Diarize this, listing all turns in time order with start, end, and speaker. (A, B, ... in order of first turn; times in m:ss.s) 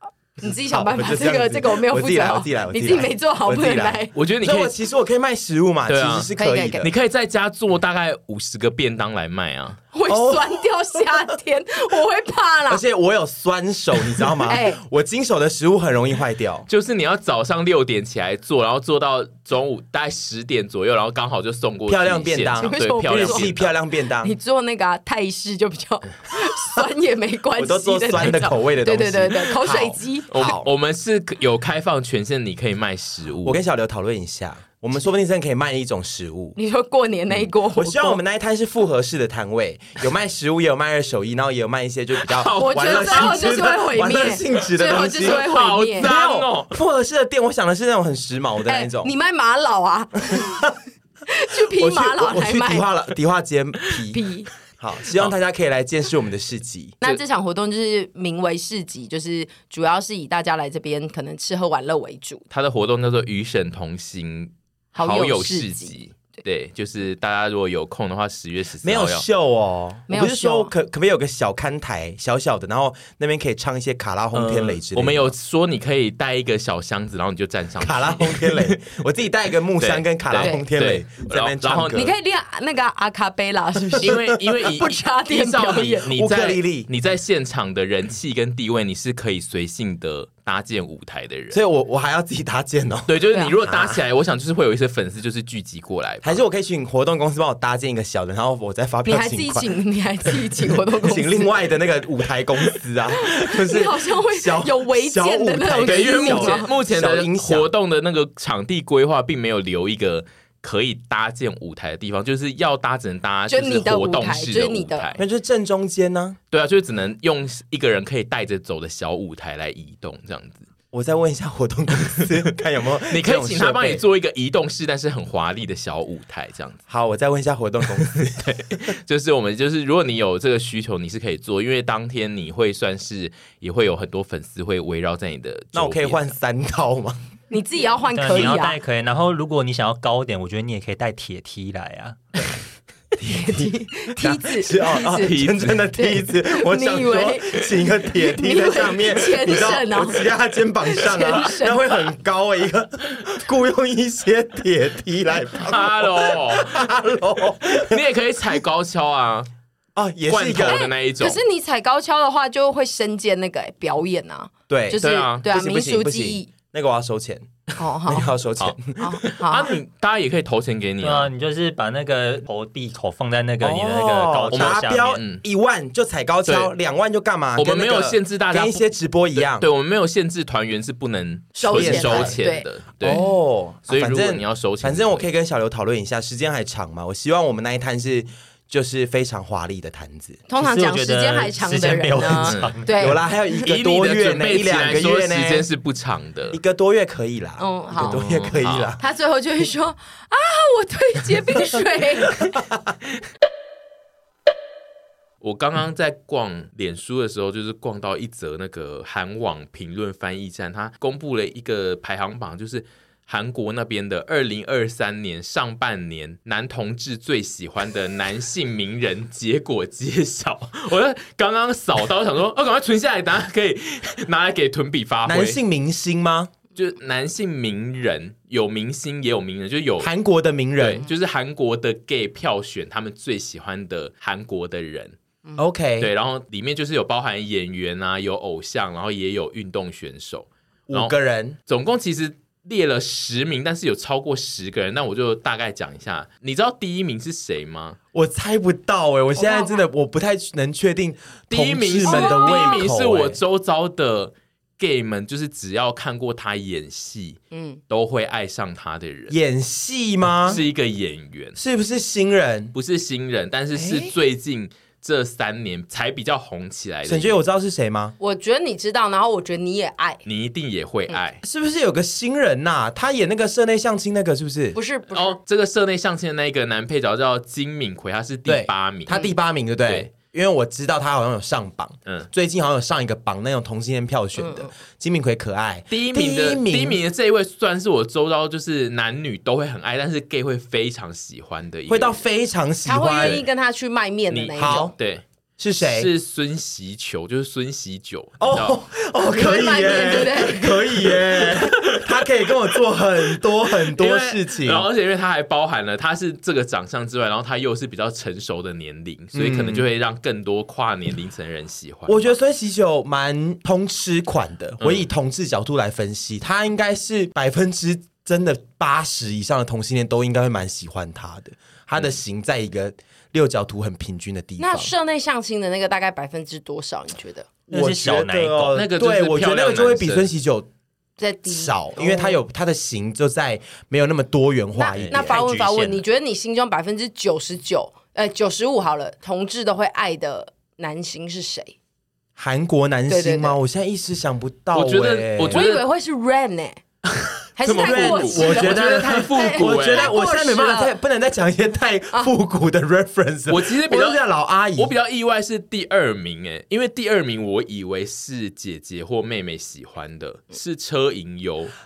0:00.4-0:04.1 A
0:00.5-0:06.9 B
0:04.2-0:04.7 C
0:05.9-0:06.3 C
0:06.4-0:06.9 A
0:06.8-0:09.8 C
0:09.9-0:12.8 A
0:10.1-0:10.6 B
0:12.7-0:16.7 B
0:14.5-0:14.8 A
0:16.7-0:23.7 C
0:21.9-0:24.4 B
0:22.6-0:23.5 A
0:24.2-0:30.3 A
0:27.6-0:30.7 B
0:30.3-0:33.6 C
0:33.4-0:36.6 B
0:36.6-0:38.2 A
0:37.7-0:45.5 B
0:42.2-0:43.7 C
0:42.5-0:46.1 A
0:45.2-0:46.7 C
0:46.0-0:49.1 B
0:48.7-0:50.7 A
0:50.3-0:50.7 B
0:51.3-0:52.9 A
0:51.6-0:54.2 B
0:54.1-0:54.5 A
0:54.8-0:57.0 B
0:57.0-1:02.4 A
1:02.5-1:09.2 C
1:05.0-1:06.0 A
1:08.8-1:15.3 B
1:10.1-1:10.7 A
1:14.3-1:18.9 C
1:17.8-1:22.1 B
1:19.8-1:22.1 C
1:20.4-1:20.6 A
1:21.8-1:26.1 A
1:24.0-1:31.6 C
1:26.1-1:26.9 B
1:31.5-1:34.0 B
1:33.1-1:36.4 C
1:36.2-1:39.7 B
1:39.0-1:41.5 A
1:40.3-1:47.7 B
1:43.1-1:46.7 A
1:45.8-1:55.2 C
1:53.5-1:55.1 A
1:55.2-1:56.4 B
1:56.5-2:00.7 C
2:00.9-2:04.0 B
2:03.1-2:06.8 C
2:06.9-2:08.8 B
2:08.4-2:16.4 C
2:15.7-2:17.2 B
2:17.5-2:18.8 A
2:18.1-2:22.2 D
2:23.2-2:38.0 B
2:23.2-2:25.4 A
2:25.1-2:25.9 C
2:25.9-2:32.0 A
2:35.6-2:36.8 C
2:37.7-2:39.5 C
2:40.0-2:40.8 B
2:40.3-2:41.4 C
2:40.7-2:46.5 A
2:44.7-2:47.5 B
2:45.0-2:45.5 C
2:47.8-2:48.3 A
2:48.1-2:49.2 B
2:48.6-2:51.3 C
2:49.0-2:49.7 A
2:51.0-2:55.2 D
2:53.6-2:59.7 B
2:54.5-2:55.4 C
2:56.4-2:56.7 C
2:57.6-3:03.2 C
3:01.6-3:03.3 A
3:01.7-3:02.4 B
3:03.0-3:10.4 B
3:03.9-3:05.3 C
3:10.5-3:13.2 A
3:10.6-3:12.9 D
3:12.5-3:12.8 C
3:13.0-3:15.7 B
3:13.6-3:16.6 C
3:16.5-3:19.0 B
3:17.6-3:18.2 A
3:18.0-3:19.0 C
3:19.0-3:22.5 A
3:25.4-3:45.6 C
3:45.3-3:46.5 B
3:46.8-3:50.1 C
3:50.0-3:51.0 B
3:50.8-3:55.2 C
3:55.6-3:56.1 B
3:56.0-4:01.1 C
4:00.9-4:01.6 B
4:01.7-4:08.0 C
4:08.1-4:13.4 B
4:09.4-4:09.8 A
4:11.5-4:17.4 C
4:12.0-4:12.8 A
4:17.5-4:17.8 A
4:17.9-4:19.4 C
4:19.3-4:20.6 B
4:20.3-4:21.6 C
4:21.6-4:22.7 B
4:22.7-4:27.4 C
4:23.7-4:24.1 B
4:27.1-4:28.2 B
4:28.2-4:30.2 A
4:30.3-4:31.4 C
4:31.4-4:34.8 B
4:34.7-4:35.4 A
4:35.1-4:39.2 C
4:38.5-4:47.0 B
4:39.1-4:39.4 A
4:44.4-4:44.7 A
4:45.9-4:52.2 C
4:51.9-4:53.4 B
4:52.8-4:54.9 A
4:54.3-4:55.2 C
4:54.6-4:54.9 B
4:55.6-4:56.1 B
4:55.8-4:58.8 C
4:58.4-5:04.9 B
4:59.2-5:01.1 A
5:01.4-5:02.2 C
5:03.9-5:12.4 C
5:09.3-5:09.9 B
5:12.1-5:24.9 B
5:24.6-5:27.5 A
5:27.7-5:30.7 B
5:27.7-5:28.8 D
5:28.7-5:30.3 C
5:31.2-5:32.4 A
5:31.5-5:35.4 B
5:34.8-5:41.8 A
5:34.9-5:36.0 D
5:42.4-5:45.6 B
5:43.1-5:43.6 A
5:44.7-5:45.8 C
5:45.5-5:46.8 A
5:47.2-5:50.1 C
5:47.6-5:50.9 A
5:47.7-5:54.9 B
5:53.5-5:54.2 C
5:54.8-6:01.7 C